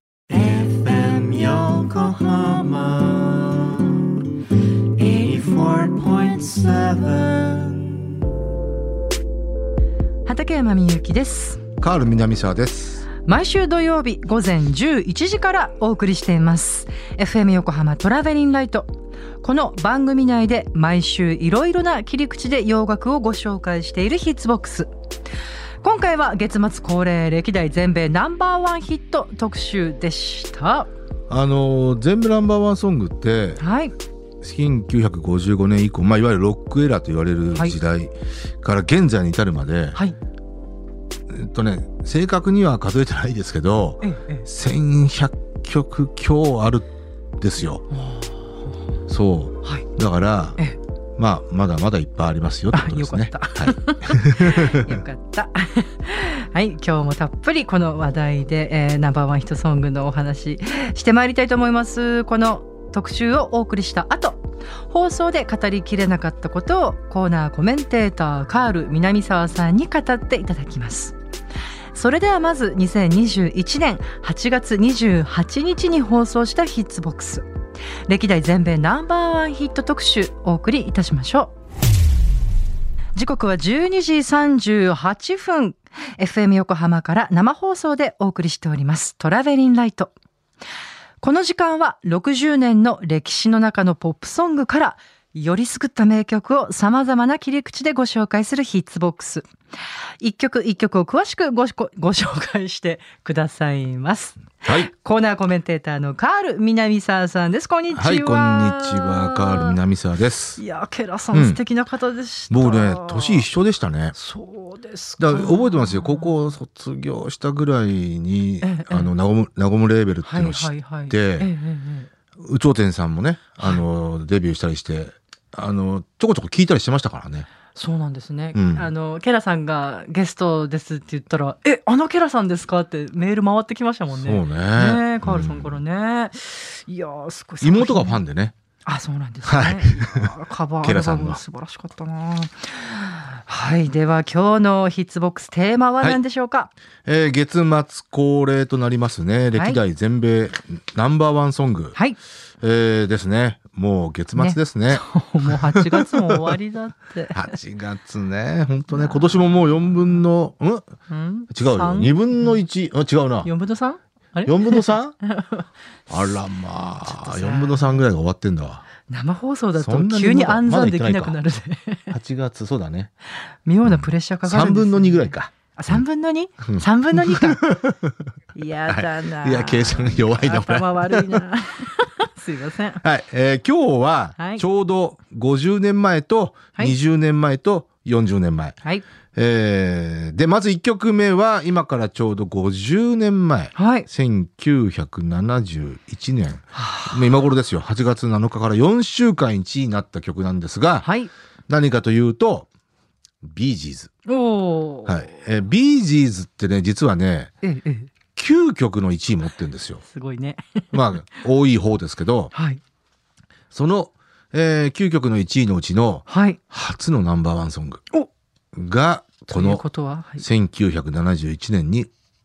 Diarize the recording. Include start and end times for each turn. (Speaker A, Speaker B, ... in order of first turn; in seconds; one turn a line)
Speaker A: 0.3-3.9
Speaker A: 5.0-8.0
Speaker B: 10.2-11.6
Speaker C: 11.8-13.1
Speaker B: 13.2-18.9
Speaker B: 19.4-24.9
Speaker B: 25.8-30.9
Speaker C: 31.3-33.6
Speaker B: 33.6-33.9
Speaker C: 34.4-40.0
Speaker C: 41.3-46.9
Speaker B: 44.0-44.5
Speaker C: 47.4-47.8
Speaker B: 47.9-48.7
Speaker C: 49.1-50.6
Speaker C: 51.2-55.0
Speaker B: 52.7-71.2
Speaker B: 71.9-77.5
Speaker B: 78.1-81.5
Speaker B: 83.1-90.1
Speaker B: 91.2-99.5
Speaker B: 100.2-109.8
Speaker C: 104.6-104.9
Speaker C: 107.9-110.6
Speaker B: 110.6-113.5
Speaker C: 111.3-111.6
Speaker C: 112.5-114.1
Speaker B: 114.1-116.2
Speaker C: 115.2-121.5
Speaker B: 118.6-119.1
Speaker B: 120.2-122.1
Speaker C: 122.4-127.5
Speaker B: 127.7-138.2
Speaker C: 128.5-128.9
Speaker C: 134.2-135.8
Speaker C: 137.6-138.5
Speaker B: 138.8-146.7
Speaker C: 139.4-141.4
Speaker C: 147.0-151.9
Speaker B: 149.5-149.8
Speaker C: 152.6-156.6
Speaker B: 154.3-157.5
Speaker C: 157.3-160.8
Speaker B: 158.9-159.9
Speaker B: 161.1-162.6
Speaker C: 161.5-163.5
Speaker B: 163.4-165.7
Speaker C: 164.4-165.1
Speaker C: 166.1-168.8
Speaker B: 167.0-168.0
Speaker B: 169.1-172.1
Speaker C: 169.8-171.3
Speaker C: 172.1-173.1
Speaker B: 173.4-177.6
Speaker C: 173.8-176.0
Speaker C: 176.7-178.2
Speaker B: 178.5-183.0
Speaker C: 178.9-181.4
Speaker C: 183.0-188.8
Speaker B: 184.4-184.6
Speaker C: 189.3-201.1
Speaker B: 193.8-194.1
Speaker B: 196.7-197.3
Speaker B: 201.0-201.3
Speaker C: 201.7-202.7
Speaker C: 203.4-204.1
Speaker B: 204.3-205.2
Speaker C: 205.1-207.5
Speaker B: 207.6-208.1
Speaker C: 208.3-210.0
Speaker B: 210.1-211.0
Speaker C: 210.9-212.5
Speaker B: 212.5-212.8
Speaker C: 213.7-218.0
Speaker B: 216.3-216.6
Speaker C: 218.7-219.8
Speaker B: 219.5-220.4
Speaker C: 220.4-222.1